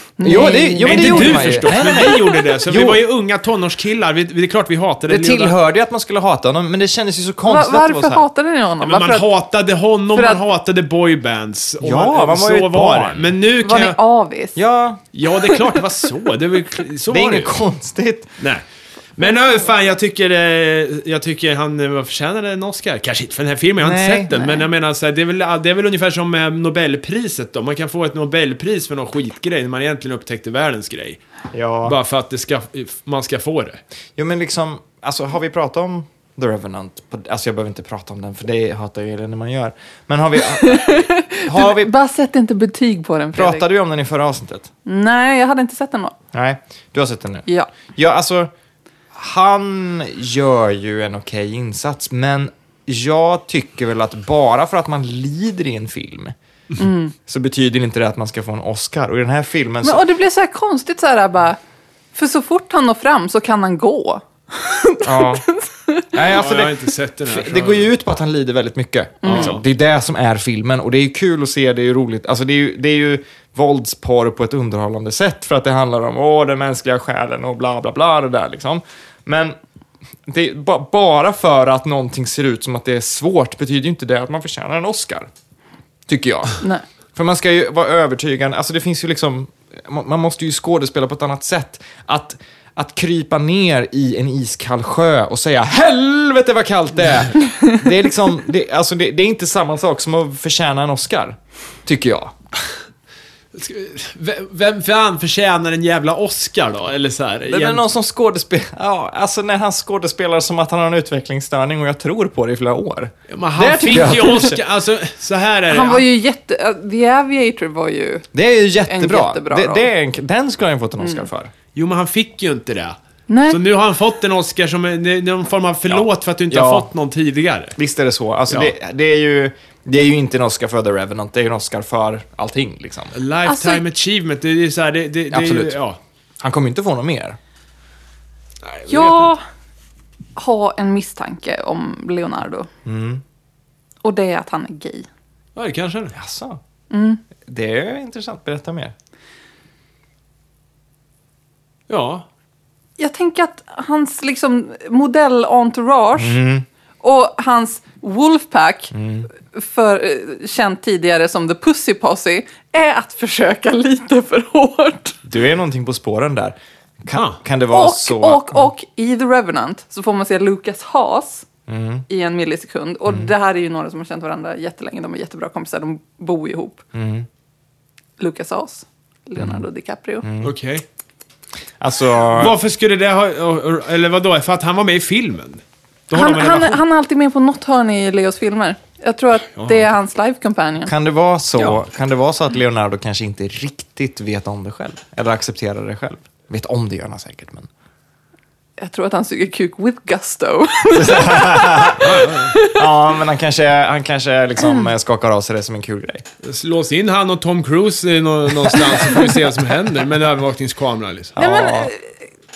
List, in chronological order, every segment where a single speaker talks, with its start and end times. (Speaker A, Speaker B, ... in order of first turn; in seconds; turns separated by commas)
Speaker A: 0.2-2.4, Speaker B: 0.2-3.0, Speaker C: 0.8-5.5, Speaker B: 5.1-8.2, Speaker A: 7.4-9.3, Speaker C: 8.8-14.0, Speaker A: 10.1-10.4, Speaker B: 11.8-13.3, Speaker A: 13.6-14.6, Speaker B: 14.6-15.0, Speaker C: 15.1-17.6, Speaker B: 17.1-18.3, Speaker C: 18.4-18.6, Speaker C: 19.2-31.2, Speaker B: 23.8-24.3, Speaker B: 31.5-31.9, Speaker C: 31.8-33.8, Speaker B: 34.1-41.9, Speaker A: 40.5-43.6, Speaker B: 43.3-44.7, Speaker A: 44.9-46.1, Speaker B: 46.3-48.5, Speaker B: 49.1-56.3, Speaker A: 56.8-57.1, Speaker B: 57.2-60.0, Speaker A: 59.8-61.6, Speaker A: 62.1-66.0, Speaker B: 65.0-65.4, Speaker B: 66.1-79.5, Speaker C: 66.2-67.9, Speaker A: 69.2-69.5, Speaker C: 69.2-69.6, Speaker B: 80.3-85.3, Speaker B: 86.1-86.6, Speaker B: 87.2-102.3, Speaker C: 103.5-107.8, Speaker B: 107.5-114.6, Speaker C: 113.3-116.0, Speaker A: 114.0-114.5, Speaker A: 115.7-118.2, Speaker B: 118.3-121.5, Speaker A: 118.8-119.9, Speaker A: 121.0-121.2, Speaker C: 121.7-123.0, Speaker A: 123.3-123.6, Speaker C: 123.5-127.8, Speaker B: 125.9-126.9, Speaker B: 127.8-133.1, Speaker C: 133.1-136.0, Speaker A: 133.4-133.8, Speaker B: 135.3-135.8, Speaker B: 136.4-137.4, Speaker C: 138.6-139.3, Speaker A: 138.9-139.4, Speaker A: 140.4-142.7, Speaker B: 142.8-143.2, Speaker A: 144.0-145.1, Speaker C: 145.6-146.1, Speaker B: 146.1-146.6, Speaker A: 146.9-147.2, Speaker B: 147.4-148.9, Speaker C: 151.9-152.2, Speaker A: 153.0-156.4, Speaker B: 156.2-156.7, Speaker A: 157.0-158.9, Speaker B: 158.9-159.3, Speaker A: 159.4-165.2, Speaker B: 165.2-168.7, Speaker C: 167.1-167.4, Speaker A: 167.7-171.4, Speaker B: 171.7-172.0, Speaker A: 172.1-176.8, Speaker B: 176.9-177.3, Speaker A: 178.2-180.3, Speaker B: 180.2-180.5, Speaker C: 180.4-180.8, Speaker B: 181.8-182.6, Speaker C: 182.3-186.8, Speaker A: 186.1-190.9, Speaker C: 189.6-189.9, Speaker B: 190.9-197.7, Speaker A: 198.8-202.8, Speaker B: 200.9-206.2, Speaker C: 202.0-202.5, Speaker A: 204.6-204.9, Speaker C: 206.4-211.3, Speaker A: 209.0-209.3, Speaker B: 211.3-211.9, Speaker A: 211.4-212.2